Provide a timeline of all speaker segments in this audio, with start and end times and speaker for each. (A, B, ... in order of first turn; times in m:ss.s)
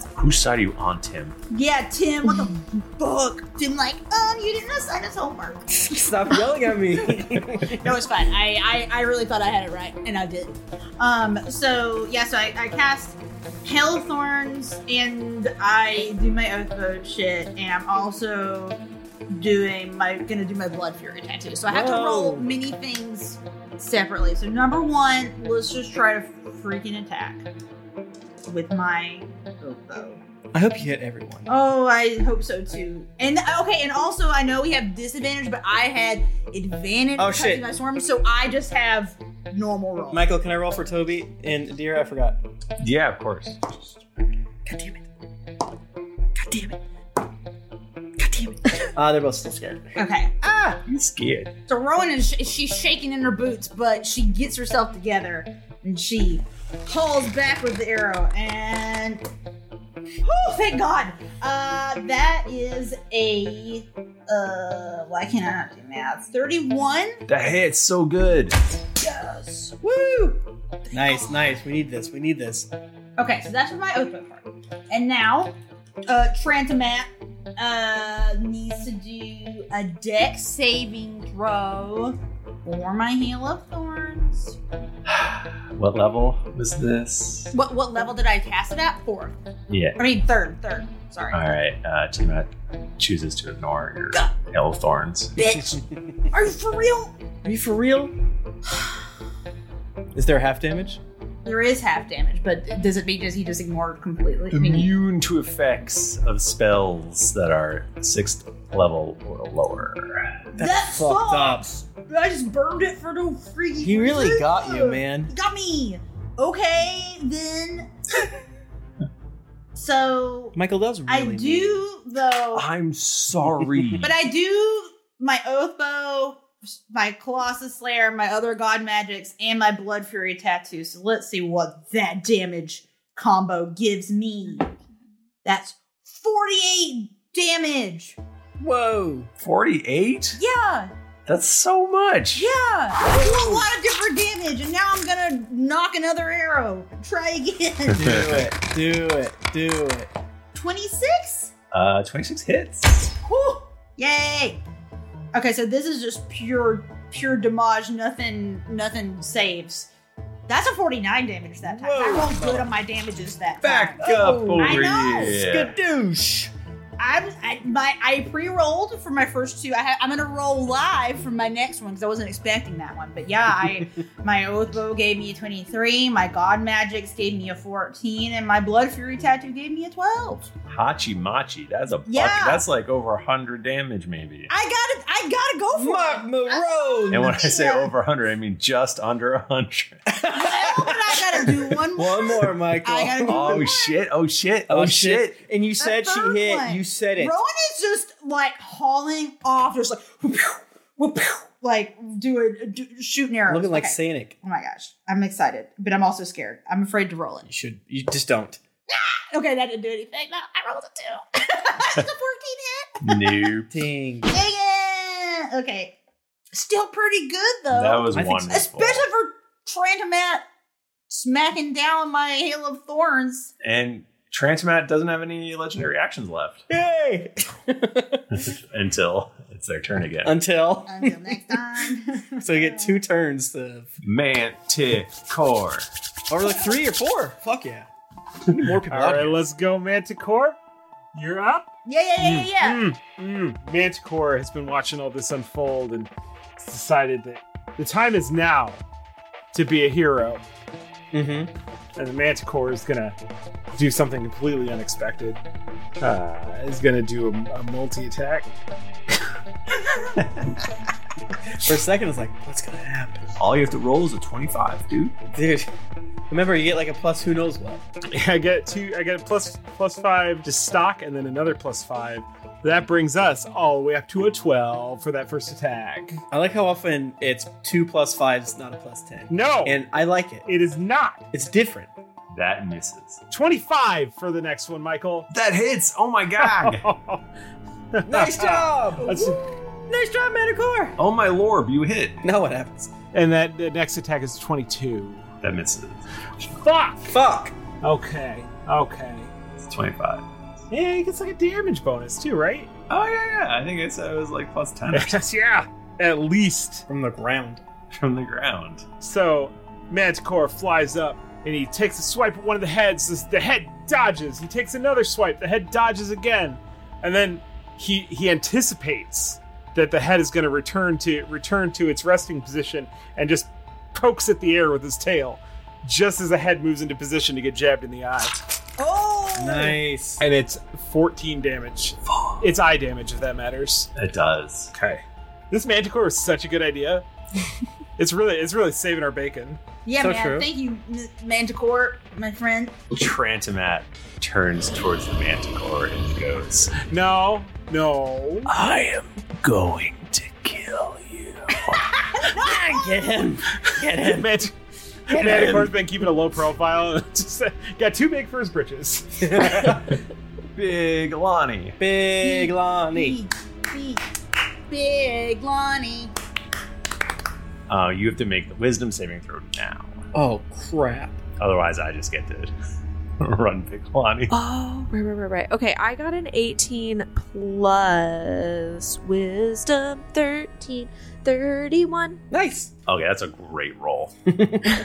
0:00.2-0:01.4 A
0:01.5-0:06.4 B
0:05.8-0:08.0 C
0:07.2-0:27.5 B
0:21.7-0:22.6 C
0:28.5-0:30.2 B
0:30.5-0:31.5 C
0:31.5-0:40.3 B
0:37.2-0:37.7 C
0:40.1-0:42.4 C
0:42.8-0:43.6 A
0:44.6-0:45.0 C
0:46.4-0:46.8 C
0:48.2-0:49.9 C
0:50.0-0:50.8 B
0:50.9-0:51.5 A
0:51.7-0:59.2 B
1:00.2-1:07.2 B
1:07.3-1:08.6 A
1:09.0-1:10.4 B
1:10.9-1:11.6 B
1:10.9-1:12.7 C
1:13.2-1:15.6 B
1:16.1-1:24.6 B
1:25.1-1:27.5 A
1:27.5-1:29.4 B
1:29.7-1:30.0 A
1:30.0-1:31.4 B
1:31.3-1:35.4 A
1:35.4-1:35.8 C
1:35.4-1:37.1 B
1:37.4-1:38.1 C
1:40.1-1:41.0 C
1:41.4-1:44.9 B
1:44.5-1:50.3 A
1:50.6-1:57.9 B
1:50.6-1:51.7 C
1:53.8-1:55.3 C
1:59.8-2:00.6 B
2:00.6-2:01.9 C
2:01.1-2:02.7 B
2:02.6-2:04.1 A
2:03.4-2:04.0 C
2:04.0-2:14.7 B
2:15.4-2:18.2 B
2:18.6-2:19.3 C
2:19.4-2:20.4 A
2:20.4-2:20.9 B
2:21.3-2:22.5 A
2:22.4-2:28.0 B
2:23.0-2:23.7 C
2:27.9-2:28.4 A
2:28.0-2:30.1 C
2:30.5-2:31.5 B
2:31.7-2:33.1 A
2:33.2-2:34.6 B
2:35.3-2:39.9 B
2:40.5-2:45.4 B
2:41.6-2:42.7 C
2:43.6-2:45.8 A
2:44.0-2:46.5 C
2:47.0-3:00.5 B
3:00.7-3:04.5 A
3:02.1-3:02.6 B
3:04.5-3:07.9 B
3:05.7-3:07.4 C
3:07.1-3:10.0 A
3:10.1-3:13.7 C
3:10.3-3:14.0 B
3:13.3-3:15.4 A
3:14.7-3:17.4 C
3:15.8-3:27.5 B
3:23.5-3:24.4 C
3:27.5-3:28.6 C
3:29.3-3:33.2 B
3:33.0-3:33.7 A
3:33.7-3:34.3 C
3:34.3-3:36.0 B
3:36.5-3:40.4 B
3:37.7-3:39.1 A
3:38.2-3:38.6 C
3:41.1-3:43.5 B
3:43.6-3:46.6 A
3:46.7-3:48.2 C
3:48.4-3:50.4 A
3:50.2-3:51.6 C
3:50.9-3:53.0 B
3:52.4-3:53.9 C
3:54.0-3:55.9 A
3:56.3-3:57.9 C
3:58.5-3:59.5 C
3:58.9-4:00.6 D
4:01.1-4:01.7 D
4:01.9-4:02.9 B
4:02.2-4:08.8 D
4:09.5-4:10.4 D
4:11.1-4:11.5 C
4:12.0-4:13.2 D
4:13.7-4:15.4 D
4:16.0-4:18.5 D
4:21.5-4:23.2 C
4:23.4-4:25.2 A
4:25.3-4:25.7 C
4:26.3-4:27.8 C
4:28.1-4:36.2 D
4:36.3-4:40.5 C
4:39.3-4:39.8 D
4:40.5-4:41.2 D
4:41.3-4:41.9 C
4:42.3-4:43.2 A
4:43.3-4:45.3 D
4:45.3-4:46.8 A
4:46.4-4:47.2 D
4:47.9-4:49.4 D
4:48.1-4:51.0 C
4:51.0-4:52.2 A
4:52.2-4:52.9 C
4:53.1-4:55.3 D
4:55.4-4:56.6 A
4:56.6-4:57.2 D
4:57.1-4:57.6 C
4:57.8-4:59.3 D
4:59.6-5:00.3 A
5:00.7-5:02.7 D
5:02.9-5:05.2 A
5:04.9-5:06.9 D
5:06.9-5:07.6 C
5:07.9-5:08.9 A
5:09.0-5:28.4 D
5:28.8-5:29.8 B
5:29.4-5:30.2 C
5:30.2-5:33.9 D
5:32.1-5:32.4 A
5:34.0-5:34.7 A
5:34.7-5:37.0 D
5:38.0-5:39.6 D
5:39.9-5:42.8 B
5:40.0-5:40.5 C
5:42.9-5:46.8 A
5:46.8-5:48.5 D
5:48.5-5:51.9 A
5:52.2-5:53.1 B
5:52.4-5:54.4 C
5:53.7-5:54.5 D
5:55.1-5:59.4 D
5:55.1-5:55.8 C
5:59.2-6:00.0 C
6:00.6-6:01.8 A
6:01.8-6:03.2 C
6:02.2-6:04.0 B
6:04.7-6:06.1 B
6:07.7-6:10.0 A
6:10.1-6:11.2 C
6:11.4-6:12.5 A
6:13.2-6:14.3 A
6:14.3-6:22.2 E
6:22.3-6:22.7 C
6:22.9-6:24.1 A
6:24.3-6:24.6 C